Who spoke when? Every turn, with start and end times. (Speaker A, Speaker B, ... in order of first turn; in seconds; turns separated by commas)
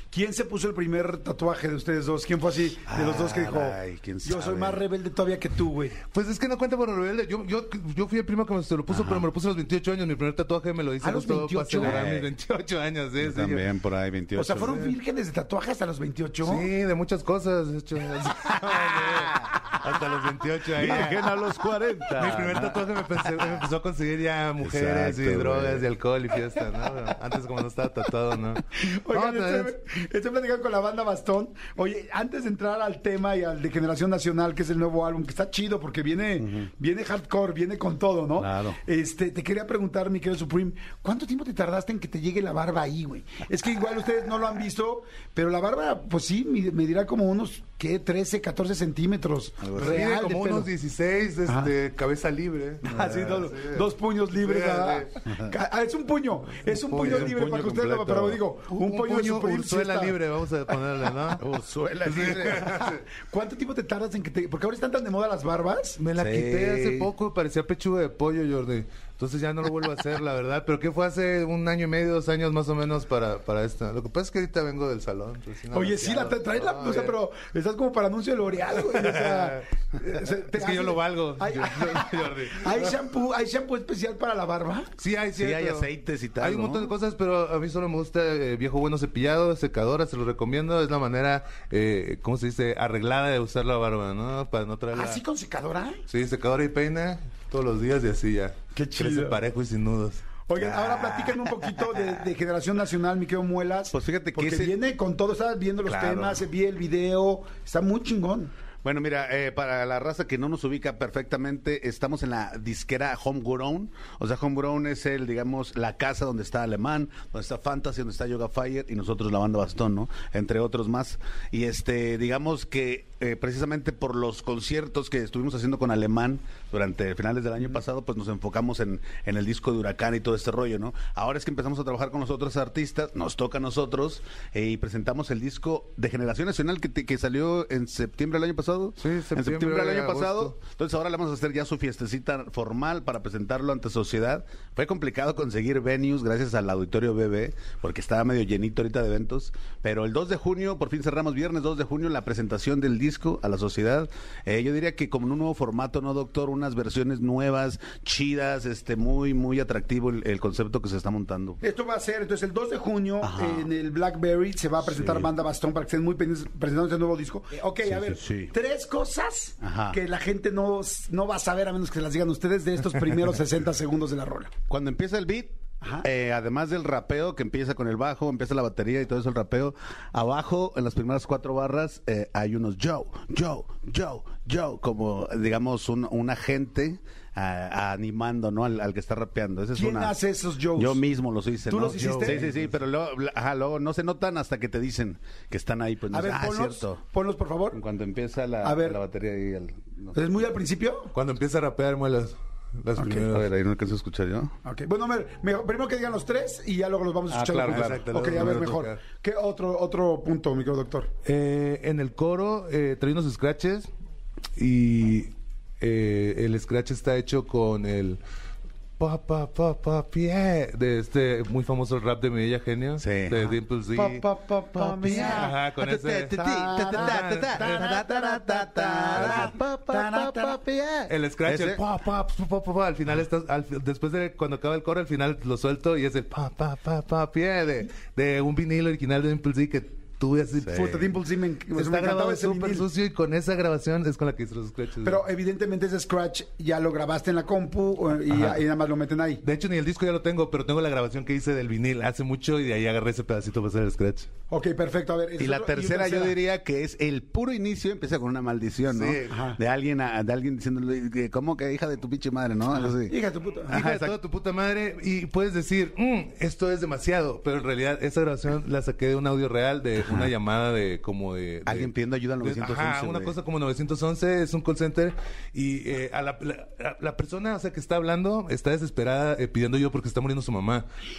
Speaker A: 0.1-6.0, Speaker B: 2.9-4.8, Speaker C: 6.0-13.7, Speaker B: 8.9-9.3, Speaker A: 11.0-12.0, Speaker B: 11.8-12.3, Speaker B: 13.2-14.9, Speaker A: 14.4-16.7, Speaker C: 14.6-14.9, Speaker C: 16.4-21.4, Speaker B: 18.6-19.5, Speaker B: 20.7-23.7, Speaker C: 22.1-29.7, Speaker B: 24.6-25.9, Speaker A: 28.9-50.7, Speaker B: 36.4-36.7, Speaker B: 38.4-38.8, Speaker B: 49.6-50.2, Speaker C: 49.7-55.1, Speaker A: 52.8-60.2, Speaker B: 52.9-53.4, Speaker C: 56.6-61.5, Speaker B: 57.0-58.4, Speaker B: 61.4-62.8, Speaker C: 62.0-63.0, Speaker A: 62.5-66.0, Speaker C: 66.0-77.2, Speaker B: 66.2-67.1, Speaker A: 75.7-84.9, Speaker C: 78.8-83.0, Speaker C: 85.0-95.2, Speaker B: 85.4-86.9, Speaker A: 94.9-96.0, Speaker C: 96.1-100.2, Speaker A: 98.7-99.4, Speaker A: 100.5-108.5, Speaker B: 100.6-102.2, Speaker B: 103.9-104.8, Speaker B: 105.8-106.5, Speaker B: 108.8-161.6, Speaker C: 139.0-140.6, Speaker A: 161.6-174.5, Speaker B: 163.2-163.7, Speaker B: 164.8-165.3, Speaker B: 167.8-168.5, Speaker B: 169.6-170.0, Speaker B: 174.7-190.2, Speaker A: 175.8-176.1, Speaker A: 189.7-191.0, Speaker B: 190.8-197.0, Speaker A: 191.7-192.4, Speaker C: 192.0-192.7, Speaker A: 196.1-197.8, Speaker B: 197.7-200.4, Speaker A: 198.6-199.0, Speaker A: 200.1-201.1, Speaker C: 201.1-203.5, Speaker A: 203.0-203.2, Speaker B: 203.0-204.5, Speaker A: 204.6-211.1, Speaker B: 207.3-208.6, Speaker C: 207.6-209.0, Speaker C: 211.2-213.9, Speaker C: 214.6-218.2, Speaker C: 219.0-224.2, Speaker B: 223.0-223.6, Speaker A: 223.9-225.6, Speaker B: 224.8-231.8, Speaker C: 224.9-228.1, Speaker A: 226.3-230.6, Speaker C: 229.1-230.3, Speaker C: 231.1-241.2, Speaker B: 240.6-240.9, Speaker A: 240.7-242.9, Speaker C: 241.7-245.2, Speaker A: 245.0-249.4, Speaker C: 248.3-248.6, Speaker C: 249.4-254.3, Speaker A: 254.5-256.4, Speaker B: 255.4-263.2, Speaker C: 258.9-259.4, Speaker A: 259.3-259.6, Speaker A: 262.8-263.8, Speaker C: 263.7-280.9, Speaker B: 263.7-264.2, Speaker B: 270.0-270.3, Speaker B: 271.7-273.4